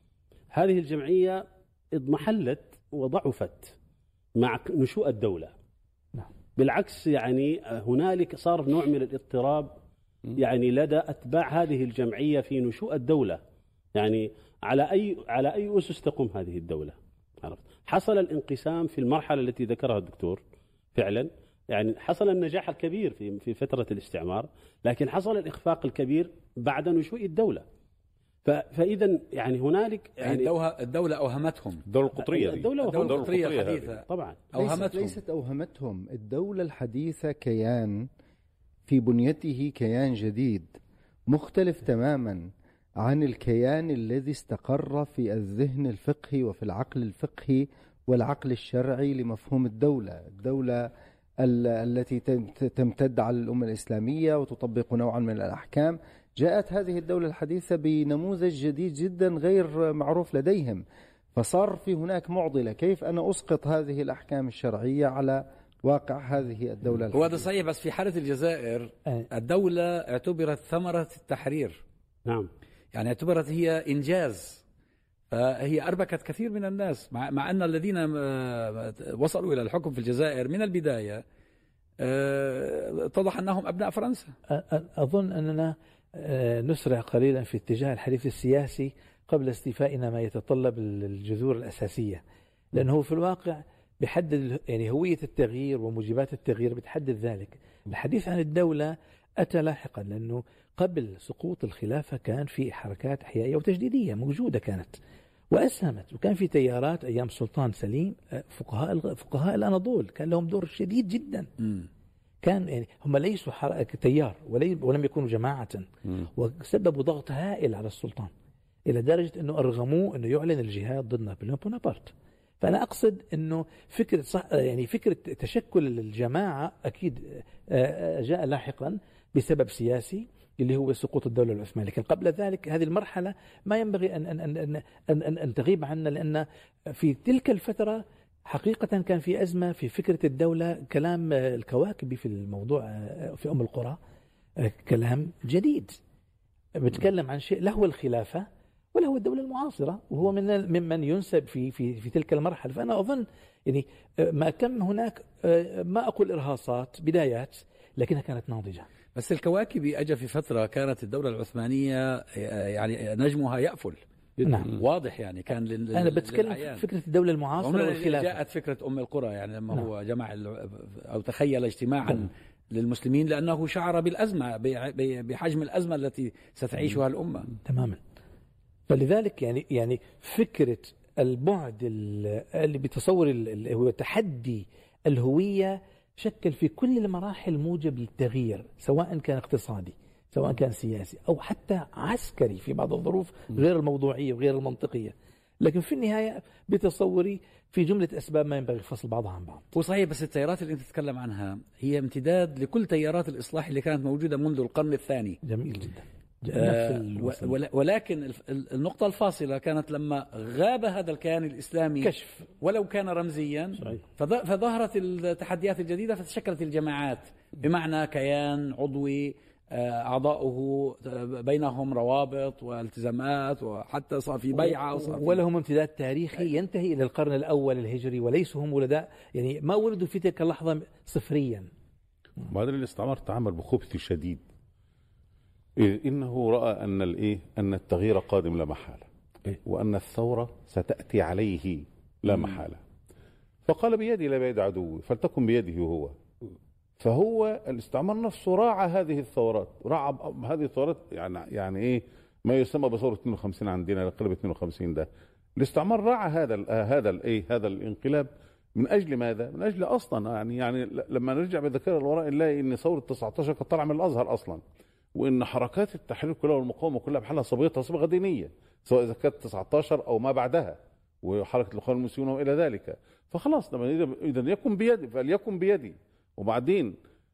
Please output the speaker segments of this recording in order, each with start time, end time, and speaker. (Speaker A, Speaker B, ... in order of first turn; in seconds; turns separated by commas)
Speaker A: 0.5-3.7, Speaker A: 4.4-5.5, Speaker A: 6.6-9.7, Speaker A: 10.4-13.4, Speaker A: 14.0-20.4, Speaker A: 20.9-27.6, Speaker A: 28.4-30.5, Speaker B: 30.2-31.8, Speaker C: 31.9-33.9, Speaker A: 32.2-34.5, Speaker B: 32.8-35.2, Speaker D: 34.6-38.1, Speaker D: 38.9-40.8, Speaker D: 41.3-42.5, Speaker D: 43.0-50.9, Speaker D: 51.4-60.8, Speaker D: 61.3-67.5, Speaker B: 67.1-71.8, Speaker A: 72.3-72.5, Speaker B: 72.9-74.6, Speaker B: 75.3-81.2, Speaker B: 82.0-84.3, Speaker E: 84.5-92.2, Speaker E: 92.7-105.0, Speaker E: 105.5-111.5, Speaker E: 112.4-118.3, Speaker E: 118.9-144.0, Speaker E: 144.6-146.0, Speaker E: 146.8-158.9, Speaker B: 159.2-164.0, Speaker E: 164.4-164.7, Speaker B: 164.7-166.8, Speaker E: 165.9-168.4, Speaker B: 167.6-177.5, Speaker E: 177.6-178.0, Speaker E: 178.9-199.6, Speaker B: 199.7-205.4, Speaker E: 205.4-207.6, Speaker B: 206.6-225.4, Speaker E: 212.0-212.5, Speaker E: 225.1-231.7, Speaker C: 232.5-234.4, Speaker C: 235.8-239.1, Speaker C: 239.6-242.8, Speaker C: 243.7-246.2, Speaker C: 247.0-264.6, Speaker C: 265.1-277.0